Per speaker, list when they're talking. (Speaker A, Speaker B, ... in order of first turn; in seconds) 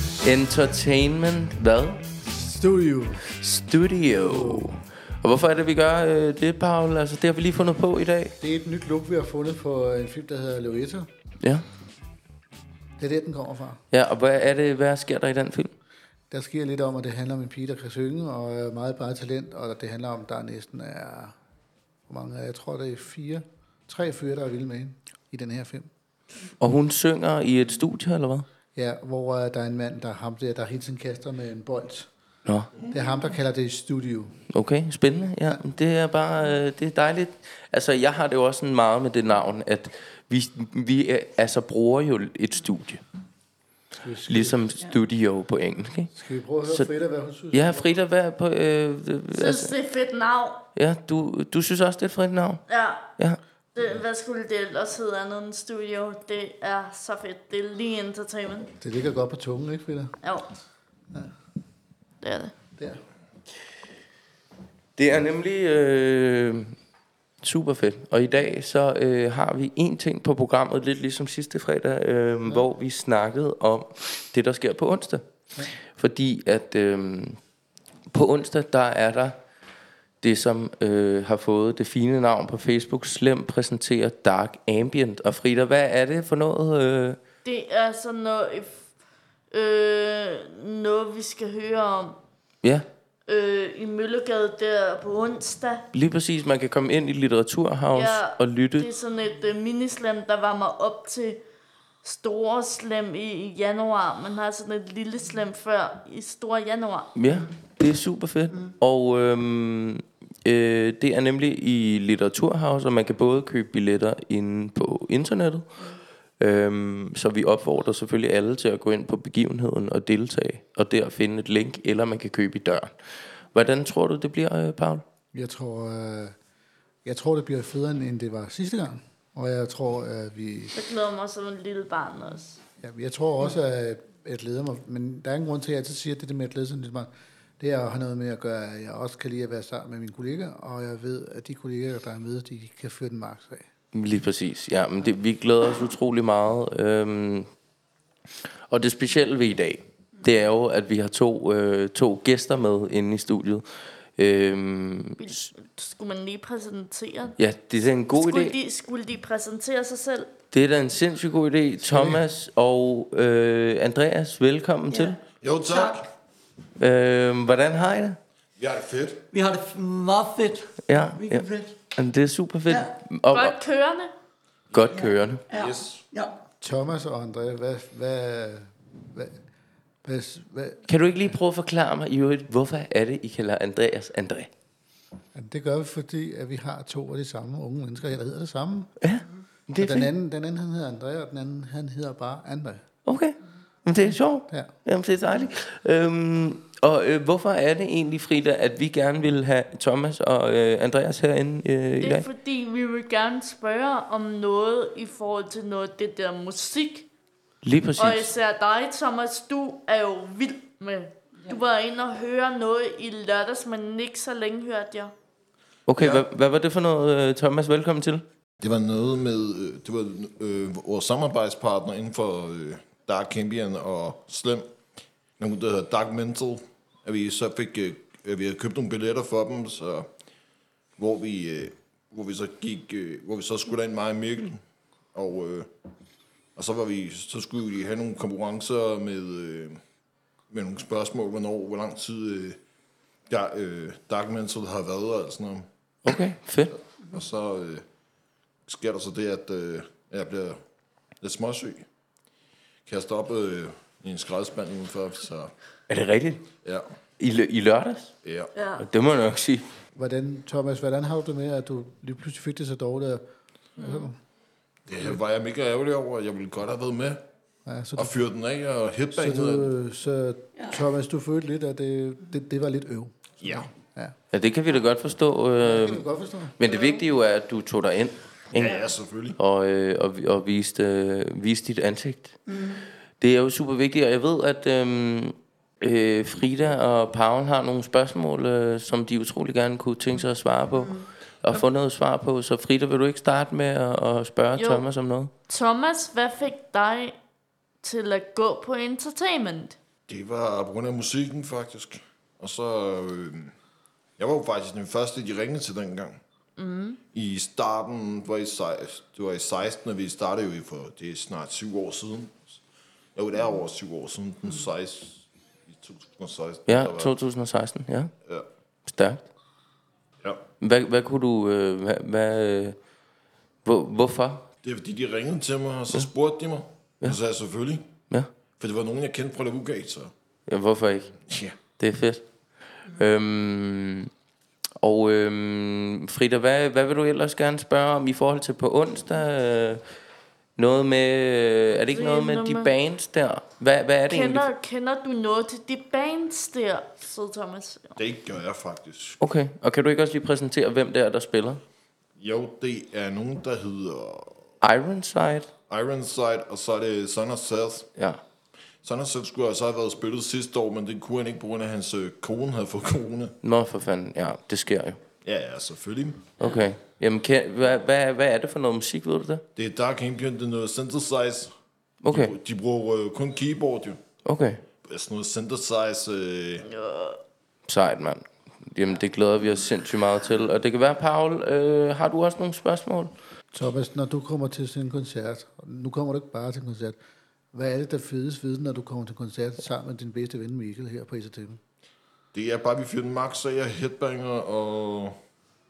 Speaker A: 0.2-2.0, 3.3-8.3, 13.9-15.7, 26.6-28.4, 34.5-43.0, 44.3-46.1, 46.6-46.9, 47.5-49.7, 50.8-52.6, 65.0-66.7, 67.4-75.2, 75.9-77.4, 78.1-79.3, 80.2-87.2, 95.9-98.9, 107.2-115.7, 116.4-122.9, 123.5-125.0, 143.9-147.5, 148.7-153.6, 154.2-155.3, 157.4-158.5, 160.5-165.2, 166.8-168.2, 170.8-173.5, 174.7-175.4, 180.9-184.5, 189.0-190.1, 193.0-202.2, 207.6-208.3, 215.9-218.2, 246.0-246.8, 255.9-256.4, 257.2-258.1, 258.8-259.6, 274.3-276.0, 276.6-278.8, 279.4-282.3, 283.2-295.3, 316.7-318.1, 318.9-319.2, 320.6-322.8, 323.6-324.4, 330.4-331.1, 331.8-332.2, 332.9-334.1, 334.8-339.8, 340.6-344.4, 349.2-351.6, 354.6-355.5, 357.9-358.2, 363.4-365.0, 366.4-369.4, 372.0-372.3, 374.2-374.6, 377.7-383.1
Speaker B: 2.2-3.2, 4.2-4.7, 8.4-11.1, 13.0-13.8, 16.3-21.4, 22.1-25.9, 28.8-32.1, 32.8-34.4, 44.0-44.6, 46.1-47.9, 58.8-60.1, 125.3-126.3, 127.0-130.7, 132.8-143.7, 161.8-162.2, 176.6-179.4, 180.0-180.9, 185.3-188.9, 189.8-192.8, 259.9-263.2, 263.8-264.1, 267.6-268.1, 269.1-274.1, 275.6-276.6, 383.5-387.0, 387.5-391.6
Speaker C: 49.3-50.6, 52.7-53.1, 53.7-58.7, 62.2-62.5, 87.4-88.8, 89.5-92.2, 93.3-95.8, 97.9-101.4, 102.0-107.1, 130.7-132.6, 155.2-157.4, 158.1-160.3, 173.3-174.1, 202.0-207.1, 208.0-215.1, 258.5-258.8, 263.8-264.0, 294.6-294.9, 295.5-297.1, 297.8-299.8, 306.6-307.0, 341.9-342.7, 344.1-348.0, 376.7-377.2
Speaker D: 165.4-166.1, 168.6-169.2, 175.5-176.0, 215.9-216.2, 218.6-224.7, 225.4-230.1, 231.0-234.6, 235.1-235.7, 236.6-239.8, 240.5-242.6, 243.3-245.6, 247.1-247.8, 248.7-250.6, 251.2-251.8, 252.9-255.5, 258.2-258.5, 264.9-267.2, 268.0-269.7, 273.4-273.7, 278.5-279.4, 300.1-303.5, 304.2-306.2, 307.1-312.6, 313.1-317.1, 324.6-327.8, 328.6-330.1, 331.3-331.6, 348.0-349.2, 352.2-354.5, 355.7-357.9, 358.8-363.3, 365.2-366.3, 369.6-371.5, 372.1-374.0, 374.8-376.6, 392.3-395.1
Speaker E: 165.7-166.0, 169.3-171.8, 172.7-172.9, 175.5-176.4, 282.5-282.9, 290.7-291.1